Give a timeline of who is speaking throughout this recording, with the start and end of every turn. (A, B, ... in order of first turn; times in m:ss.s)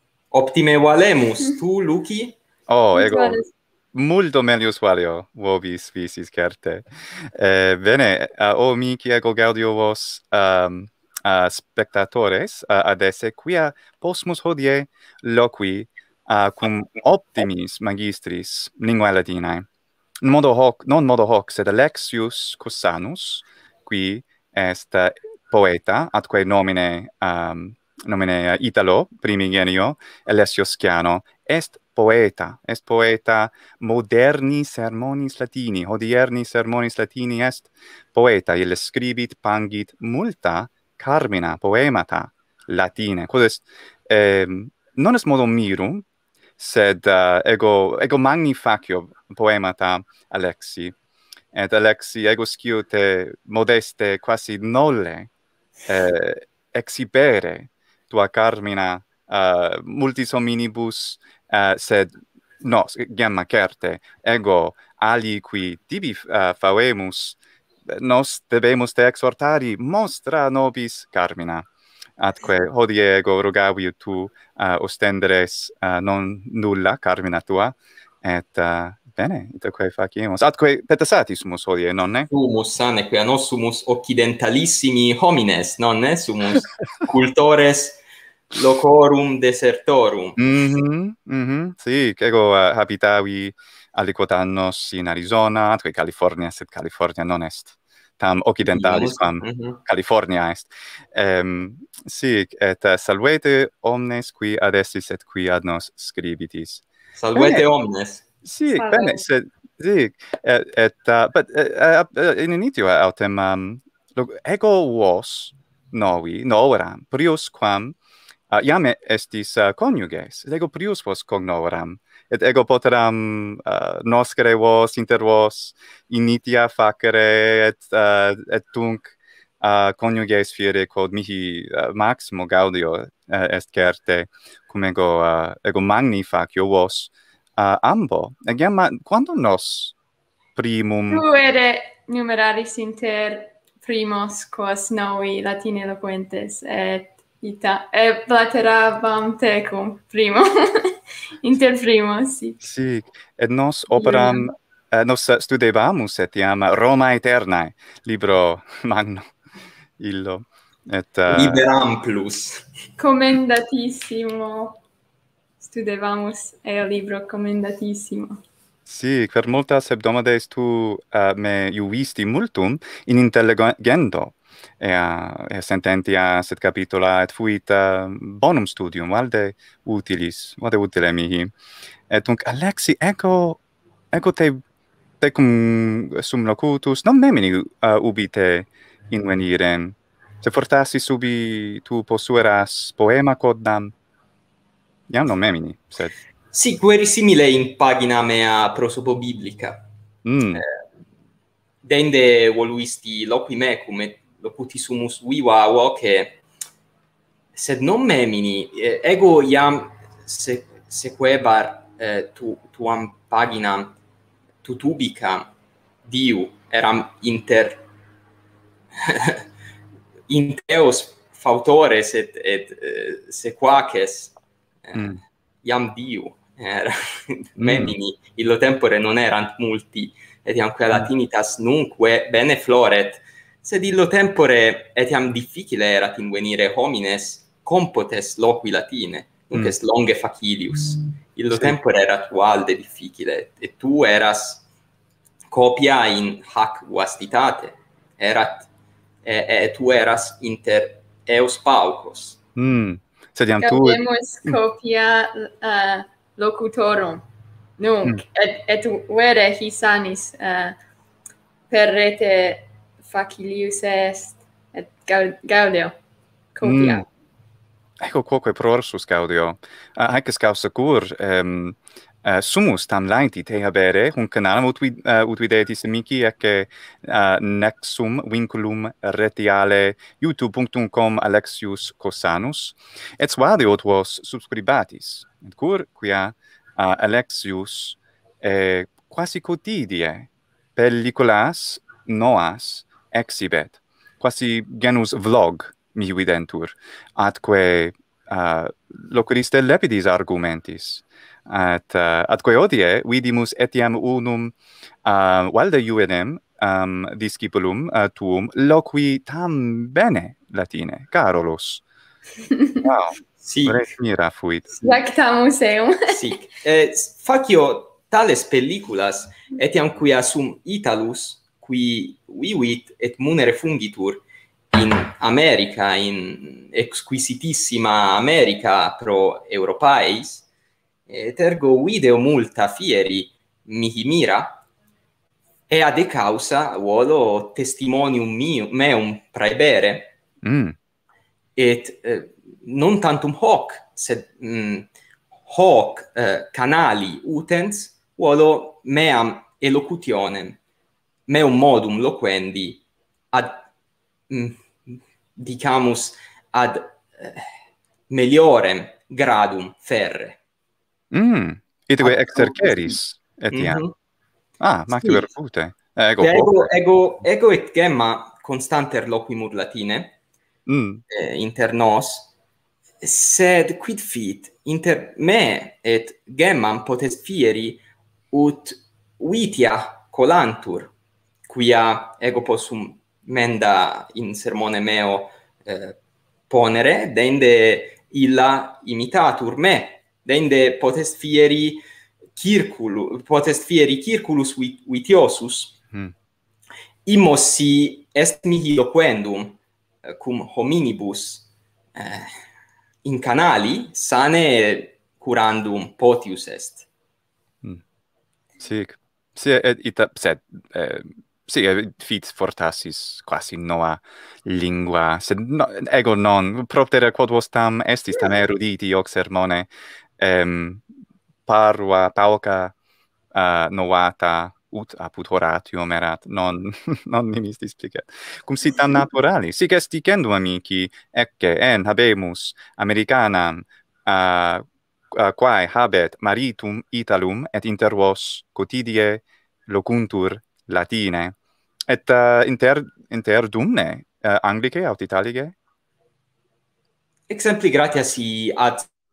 0:00.3-0:02.4 A
0:02.7-0:03.4 B
0:02.9-0:03.5 C
0:03.9-0:19.7 B
0:20.2-0:46.0 B
0:46.6-0:50.9 B
0:51.5-0:55.3 B
0:55.9-1:07.4 B
1:07.9-1:11.7 B
1:12.2-1:22.3 B
1:22.3-1:28.0 A
1:28.5-1:30.5 A
1:30.4-1:47.6 B
1:38.6-1:39.8 A
1:47.2-1:48.2 A
1:48.4-1:58.0 B
1:48.7-1:49.2 C
1:58.5-2:19.9 B
2:20.6-2:21.2 B
2:21.1-2:32.6 C
2:32.6-2:39.2 B
2:34.0-2:34.5 C
2:40.0-2:41.6 B
2:41.3-2:42.6 A
2:43.0-2:44.8 C
2:45.6-2:48.4 C
2:48.9-3:01.5 B
3:02.1-3:03.6 B
3:04.1-3:04.6 B
3:05.2-3:13.9 B
3:15.1-3:16.1 B
3:16.5-3:19.8 A
3:20.2-3:20.6 B
3:21.8-3:26.4 A
3:27.5-3:33.9 A
3:34.6-3:35.5 A
3:36.0-3:37.8 A
3:39.0-3:39.4 A
3:40.3-3:44.3 A
3:44.8-3:45.1 A
3:44.9-3:45.2 B
3:45.6-4:04.6 A
3:47.6-3:47.9 B
4:01.5-4:01.8 B
4:05.5-4:08.7 A
4:09.2-4:12.4 A
4:12.6-4:14.6 B
4:13.6-4:17.2 C
4:17.8-4:20.8 C
4:21.7-4:26.0 C
4:26.5-4:27.0 C
4:26.6-4:27.0 B
4:28.0-5:04.5 B
5:05.0-5:11.8 B
5:12.5-5:12.8 C
5:12.8-5:14.7 B
5:13.4-5:13.9 A
5:14.8-5:16.1 C
5:16.1-5:30.4 A
5:31.1-5:34.6 A
5:35.7-5:40.1 A
5:40.4-5:40.8 B
5:41.6-5:44.9 A
5:45.4-5:50.6 A
5:51.3-5:53.6 A
5:54.3-5:57.5 A
5:58.1-6:00.4 A
6:01.1-6:03.8 B
6:02.0-6:03.0 A
6:03.5-6:03.9 A
6:04.6-6:06.7 B
6:04.9-6:05.3 A
6:06.2-6:10.2 A
6:10.7-6:11.0 B
6:11.1-6:12.3 A
6:13.0-6:20.9 A
6:21.5-6:26.0 A
6:26.5-6:31.8 A
6:32.4-6:35.7 A
6:37.0-6:42.3 A
6:43.0-6:46.9 A
6:48.6-7:00.8 B
7:01.4-7:02.7 B
7:03.3-7:21.3 B
7:21.9-7:25.6 B
7:27.3-7:28.9 A